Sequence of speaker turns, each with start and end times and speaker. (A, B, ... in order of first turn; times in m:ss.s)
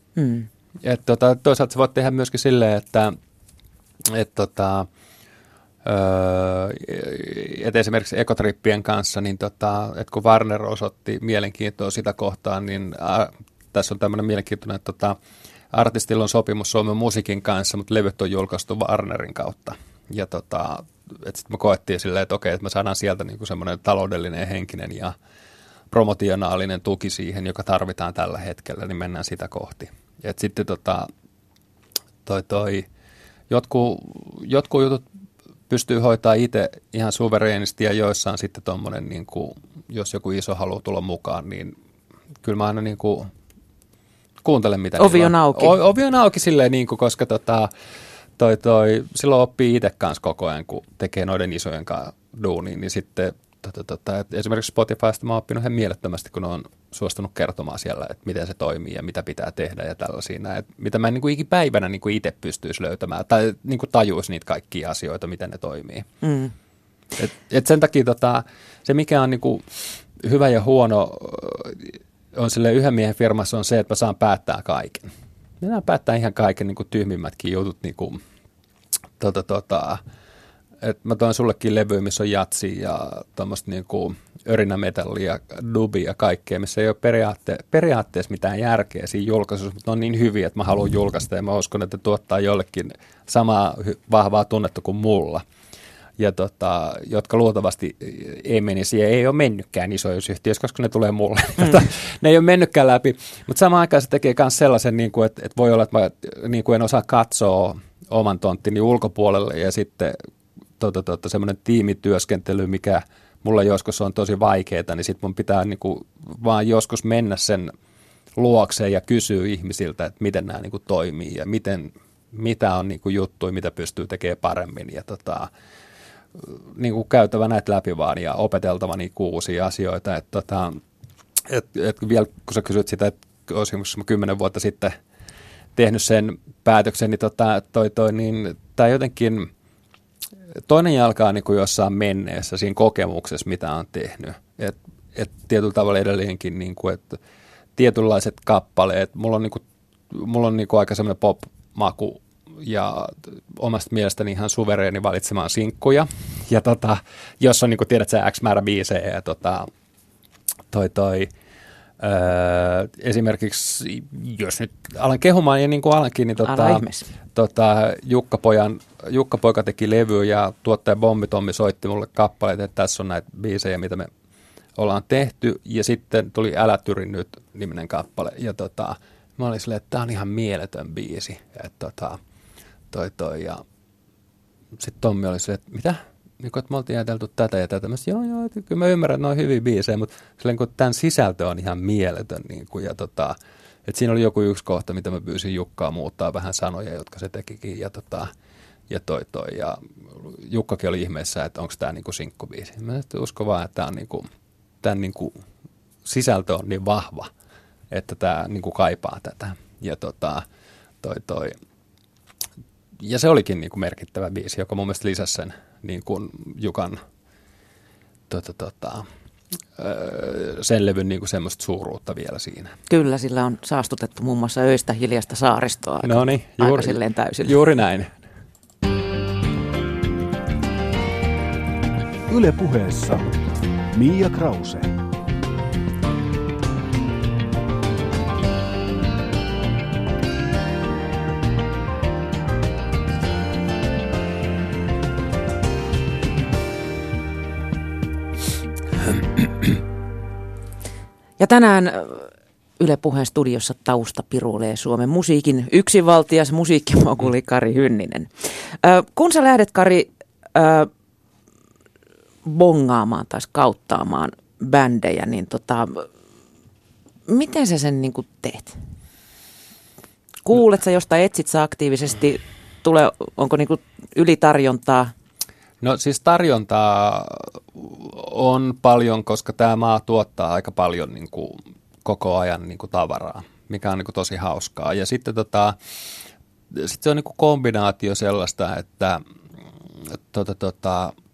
0:00.2-0:00.5 A
0:00.8-0:03.2 B
0:04.0-0:04.9 B
0:05.8-0:15.2 B
0:15.7-0:25.2 B
0:25.9-0:31.1 B
0:32.2-0:32.9 B
0:33.5-0:35.0 B
0:35.7-0:41.8 B
0:42.4-0:43.3 B
0:44.4-0:47.7 B
0:45.0-0:45.8 A
0:48.4-1:06.1 B
1:06.2-1:06.5 A
1:07.2-1:15.1 B
1:15.6-1:18.2 B
1:19.2-1:20.0 B
1:20.8-1:35.4 B
1:36.2-1:50.2 B
1:50.8-1:57.7 B
1:58.4-2:05.5 B
2:06.4-2:10.8 B
2:11.5-2:14.9 B
2:15.8-2:19.5 B
2:20.7-2:27.2 B
2:27.8-2:39.7 B
2:40.7-2:41.3 B
2:42.0-2:54.1 B
2:46.4-2:47.1 A
2:54.8-3:02.2 B
3:02.9-3:03.6 B
3:04.8-3:18.3 B
3:18.9-3:24.3 B
3:24.8-3:25.4 B
3:26.0-3:27.3 B
3:27.9-3:30.4 B
3:31.0-3:31.6 B
3:33.0-3:37.0 B
3:38.3-3:39.1 B
3:39.8-3:42.8 B
3:42.9-3:47.6 A
3:46.0-3:48.2 B
3:52.3-3:53.4 C
3:53.9-3:55.0 C
4:11.4-4:12.3 A
4:12.8-4:20.9 A
4:22.4-4:26.1 A
4:27.3-4:28.8 A
4:30.4-4:35.1 A
4:35.8-4:45.8 B
4:46.7-4:49.2 B
4:50.1-4:51.1 B